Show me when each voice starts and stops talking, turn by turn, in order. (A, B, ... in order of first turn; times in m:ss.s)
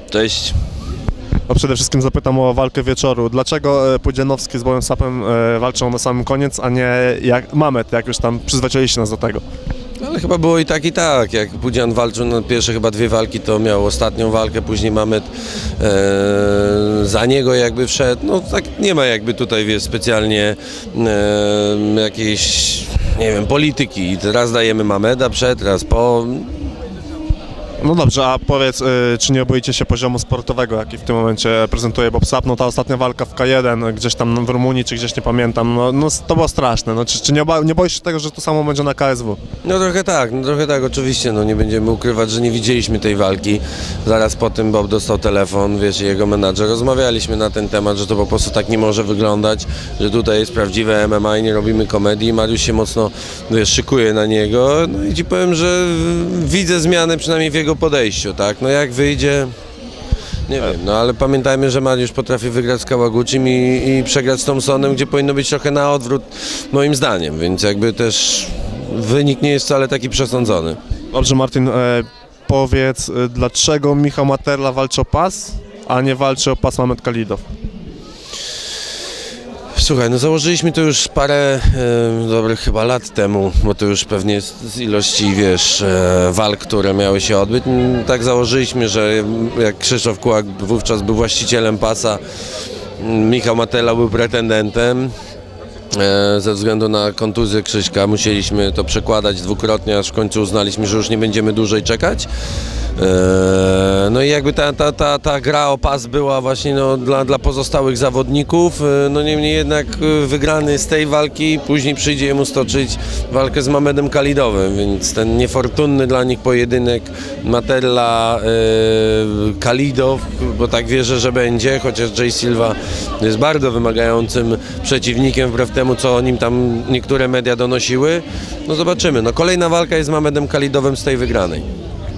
0:00.1-0:00.6 A
0:01.5-0:09.4 B
0:10.0-0:26.6 A
0:27.8-0:39.4 B
0:39.6-0:59.5 A
1:00.5-1:10.8 A
1:11.1-1:17.4 B
1:19.7-1:32.2 A
1:33.0-1:35.1 A
1:35.9-1:42.3 A
1:43.0-2:11.7 A